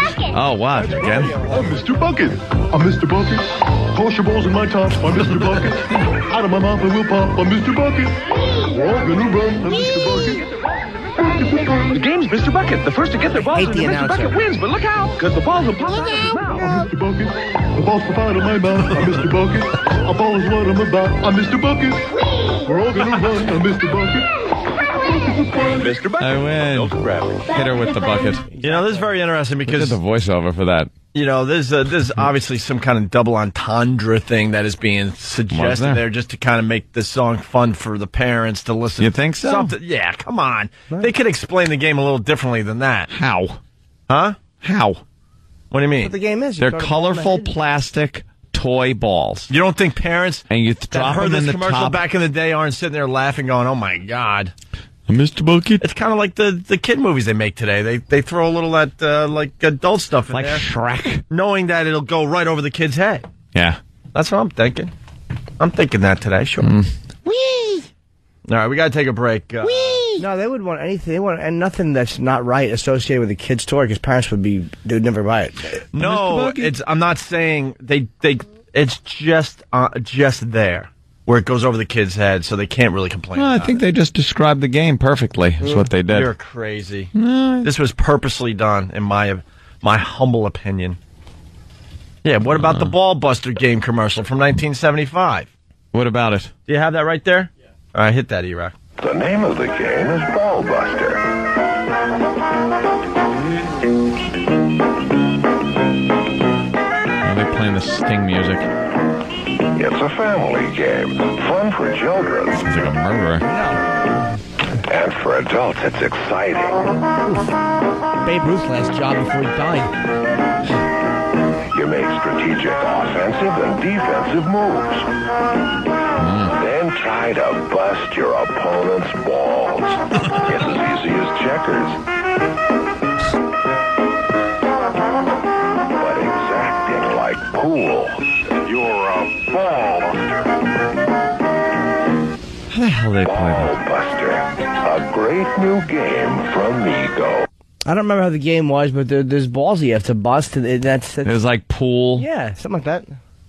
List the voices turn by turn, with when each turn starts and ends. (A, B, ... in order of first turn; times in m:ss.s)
0:00.2-0:01.5 A
0:01.1-0:01.8 B
0:01.5-0:10.4 C
0:05.3-0:05.7 D
0:05.9-0:06.2 A
0:09.9-0:16.7 E
0:13.3-0:14.4 B
0:16.1-0:16.8 B
0:16.6-0:22.0 C
0:18.8-0:19.1 D
0:22.6-0:24.3 C
0:26.0-0:28.4 A
0:28.5-0:29.1 B
0:28.6-0:30.0 D
0:29.7-0:30.9 A
0:31.1-0:43.1 D
0:35.5-0:36.0 A
0:39.0-0:39.7 A
0:43.1-0:43.6 A
0:44.1-0:44.4 D
0:44.5-0:45.0 A
0:45.7-0:46.1 D
0:46.0-0:47.6 B
0:46.6-0:49.5 A
0:49.5-0:54.5 D
0:50.5-0:52.0 A
0:55.1-0:55.8 A
0:55.8-1:00.6 D
1:00.3-1:01.2 A
1:01.3-1:03.2 D
1:03.5-1:03.8 A
1:04.1-1:04.9 D
1:05.6-1:06.7 D
1:06.6-1:07.8 A
1:08.5-1:10.0 D
1:09.6-1:10.2 A
1:10.2-1:15.8 B
1:15.9-1:23.8 D
1:16.0-1:16.7 A
1:23.4-1:26.3 A
1:26.0-1:27.1 D
1:27.1-1:27.7 A
1:27.6-1:31.0 D
1:32.2-1:35.5 D
1:32.6-1:32.9 A
1:35.9-1:36.5 A
1:36.7-1:38.8 D
1:39.0-1:41.2 F
1:47.2-1:48.7 A
1:49.7-1:52.7 F
1:52.6-1:53.4 A
1:53.4-1:53.8 B
1:54.9-1:56.8 F
1:58.2-1:59.9 B
2:01.7-2:05.1 F
2:06.2-2:06.5 A
2:06.5-2:12.0 F
2:16.0-2:20.5 F
2:22.7-2:23.8 A
2:23.2-2:27.4 F
2:27.8-2:31.4 B
2:31.2-2:32.2 A
2:32.2-2:33.2 B